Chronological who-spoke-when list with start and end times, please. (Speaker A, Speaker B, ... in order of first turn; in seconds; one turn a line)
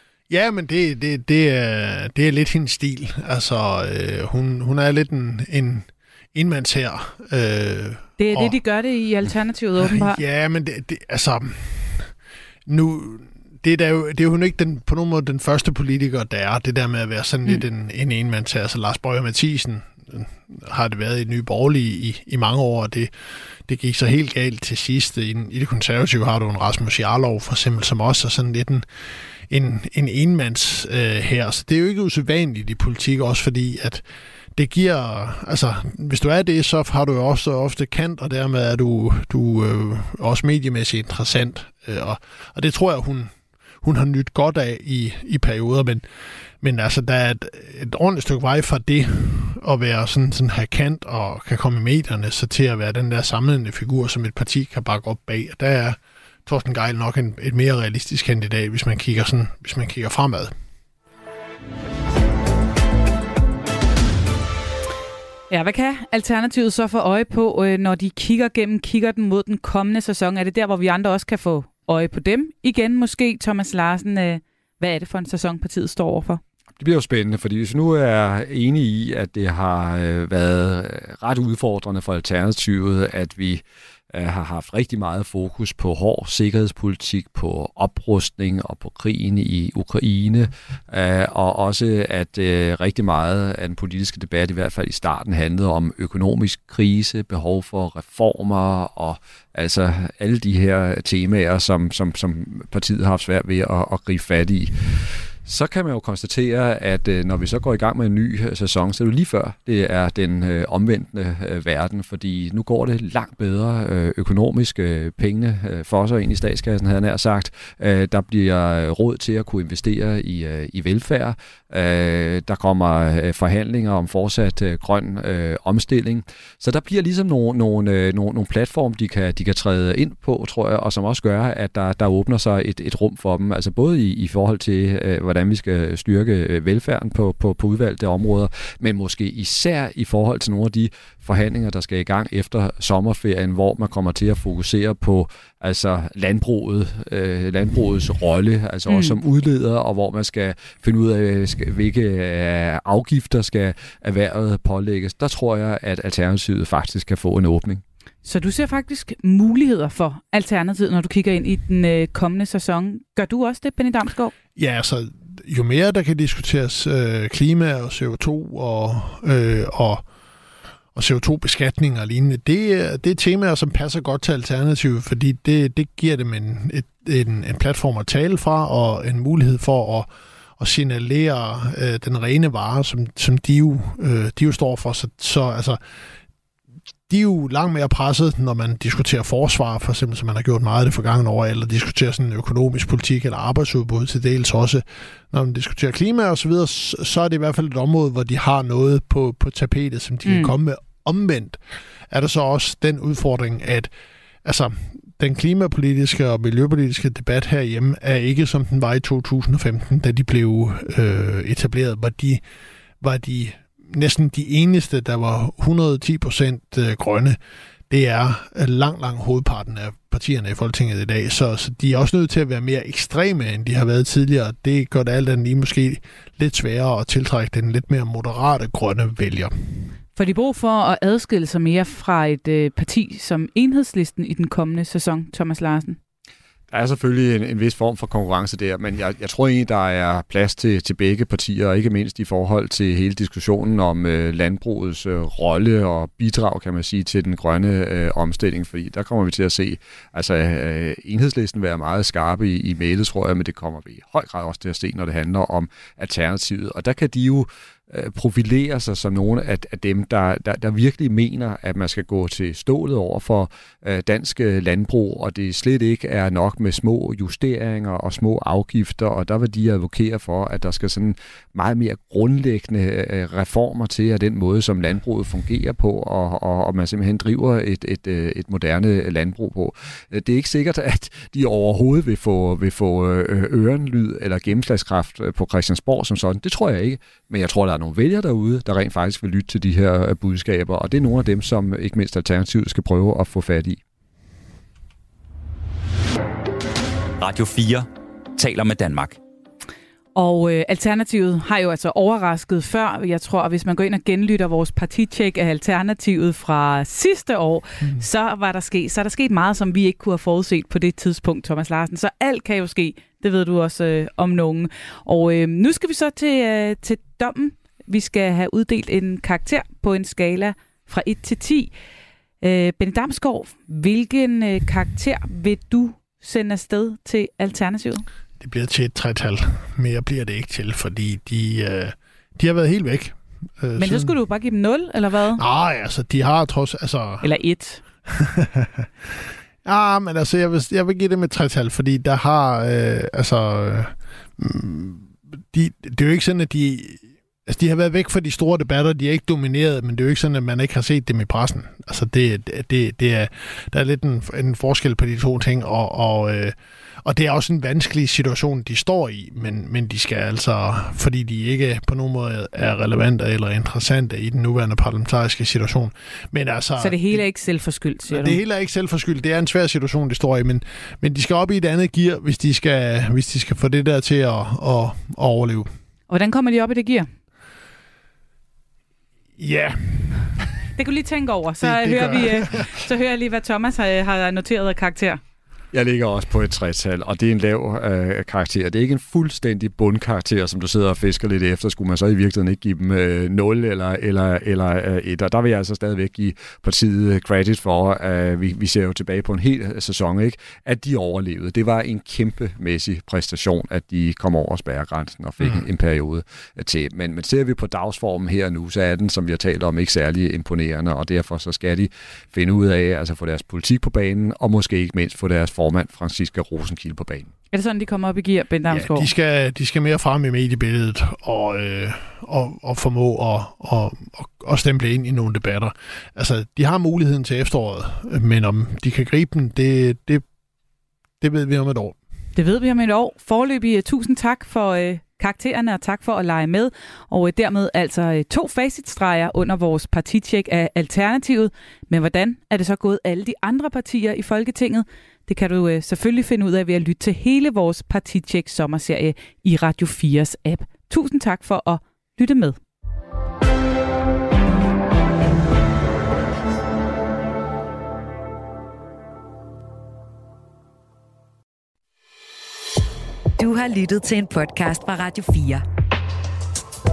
Speaker A: 0.3-8.5
Speaker B: 8.2-10.2
Speaker A: 9.8-12.1
Speaker A: 12.7-23.1
Speaker A: 23.6-28.9
Speaker A: 29.5-34.0
Speaker A: 34.5-46.0
Speaker A: 46.6-60.5
Speaker B: 65.5-76.4
Speaker C: 76.8-157.8
Speaker B: 148.9-149.1
Speaker B: 158.2-164.3
Speaker A: 164.6-170.0
Speaker A: 170.9-185.8
Speaker A: 187.1-201.6
Speaker B: 200.2-200.5
Speaker A: 202.1-203.9
Speaker A: 204.4-212.4
Speaker A: 213.0-217.4
Speaker A: 217.9-229.5
Speaker B: 230.2-236.0
Speaker C: 236.7-293.8
Speaker D: 297.2-299.2
Speaker B: 300.1-321.7
Speaker B: 322.4-328.0
Speaker A: 328.4-334.1
Speaker B: 333.8-335.4
Speaker A: 335.4-337.3
Speaker B: 337.2-337.8
Speaker A: 338.1-339.1
Speaker A: 339.6-367.2
Speaker B: 366.8-368.4
Speaker A: 368.1-375.7
Speaker B: 376.1-377.1
Speaker A: 379.4-380.3
Speaker B: 380.8-385.2
Speaker A: 381.6-382.7
Speaker C: 385.7-417.3
Speaker B: 417.5-419.1
Speaker A: 418.7-430.2
Speaker A: 431.2-431.9
Speaker B: 432.3-452.6
Speaker E: 463.4-465.6